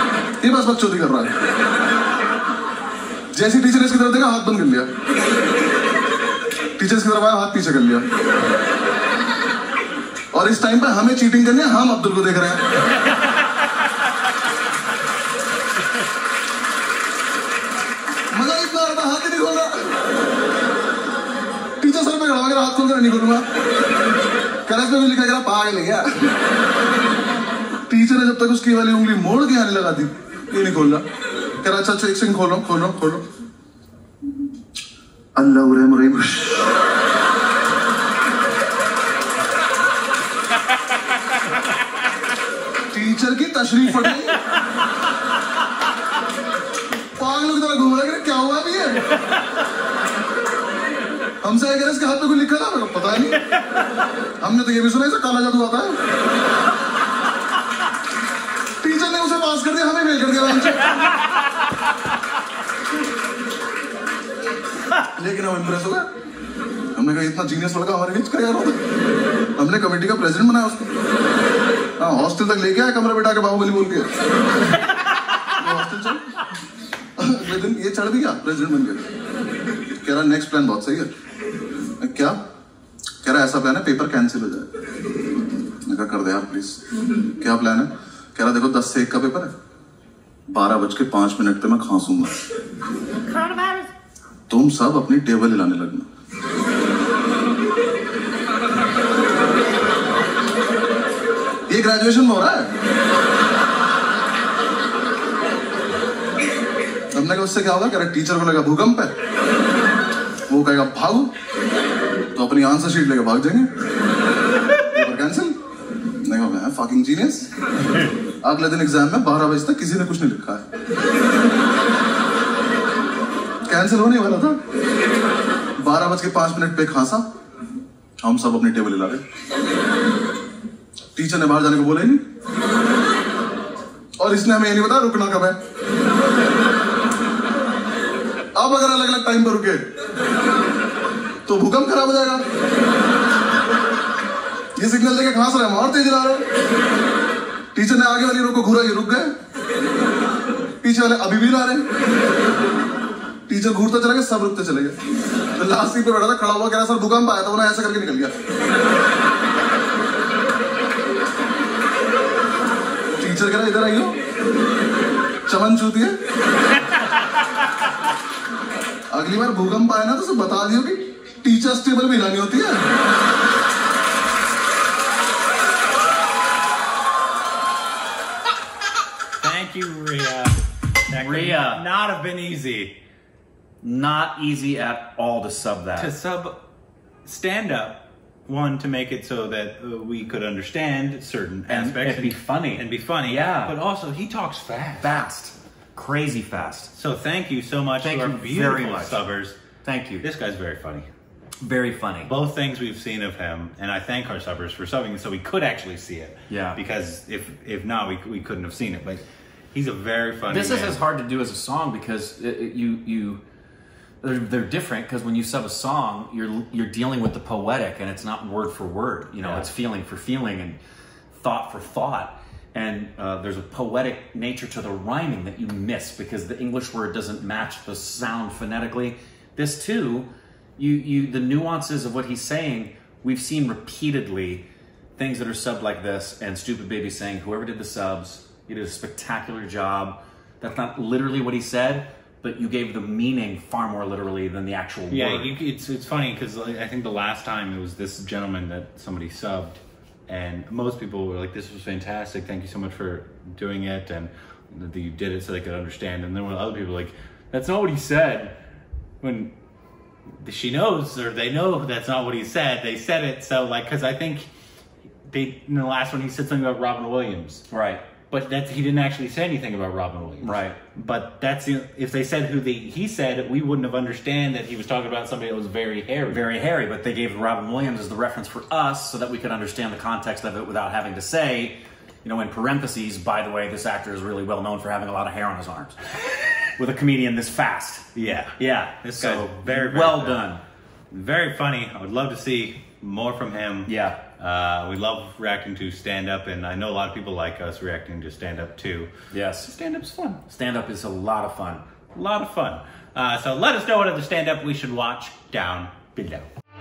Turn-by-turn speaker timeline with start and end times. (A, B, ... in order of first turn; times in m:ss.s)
0:00.4-0:01.3 A
0:03.3-0:04.9 A
0:06.8-0:08.0 A
0:10.3-0:12.6 A
0:18.3-0:19.9 A
0:21.8-0:23.4 A
0:24.6-0:26.3 A
0:27.9-0:31.0 A
0:31.6-0:33.2 A
0:35.4-0:36.7 A
0:42.9-0:44.4 A
0:47.1-0:49.0 A
0:51.4-0:53.4 A
0:54.4-0:56.0 A
0:58.8-1:01.0 A
1:05.2-1:06.0 A
1:06.9-1:08.8 A
1:09.6-1:10.8 A
1:12.0-1:14.1 A
1:15.6-1:16.3 A
1:17.2-1:19.0 A
1:20.0-1:21.1 A
1:22.0-1:22.4 A
1:23.2-1:24.7 A
1:25.8-1:26.8 A
1:27.4-1:29.5 A
1:30.5-1:32.3 A
1:33.3-1:33.9 B
1:34.5-1:36.0 A
1:41.7-1:42.7 A
1:47.1-1:49.1 A
1:50.5-1:51.3 A
1:52.3-1:53.7 A
1:54.9-1:55.5 A
1:56.2-1:57.4 A
1:58.4-2:00.6 A
2:03.7-2:04.6 A
2:05.8-2:07.2 A
2:08.2-2:09.2 A
2:11.1-2:12.2 A
2:14.2-2:15.6 A
2:18.5-2:19.8 A
2:21.4-2:22.4 A
2:24.8-2:26.4 A
2:27.7-2:29.3 A
2:30.8-2:31.8 A
2:33.5-2:34.9 A
2:35.6-2:38.3 A
2:43.2-2:44.1 A
2:45.5-2:46.1 A
2:49.1-2:52.8 A
2:59.4-3:00.6 B
3:01.1-3:02.9 B
3:01.1-3:01.8 C
3:03.8-3:06.1 C
3:06.0-3:06.6 B
3:07.2-3:15.2 B
3:11.7-3:13.8 C
3:15.0-3:16.9 C
3:16.9-3:19.6 B
3:18.0-3:19.2 C
3:19.8-3:20.2 C
3:20.2-3:21.1 B
3:21.6-3:22.3 C
3:22.3-3:31.0 B
3:26.5-3:26.8 C
3:30.5-3:33.4 C
3:34.2-3:40.8 C
3:39.4-3:39.7 B
3:41.3-3:54.6 C
3:55.2-4:05.5 C
4:05.1-4:09.8 B
4:10.3-4:18.6 B
4:19.2-4:19.5 B
4:20.4-4:24.5 B
4:25.3-4:27.6 B
4:27.7-4:28.0 C
4:28.3-4:36.4 B
4:30.4-4:30.8 C
4:36.3-4:46.0 C
4:46.8-4:50.6 C
4:48.1-4:50.4 B
4:51.1-4:59.1 B
4:53.8-4:54.2 C
4:59.3-4:59.7 C
4:59.6-5:00.4 B
5:00.5-5:01.8 C
5:02.1-5:06.5 B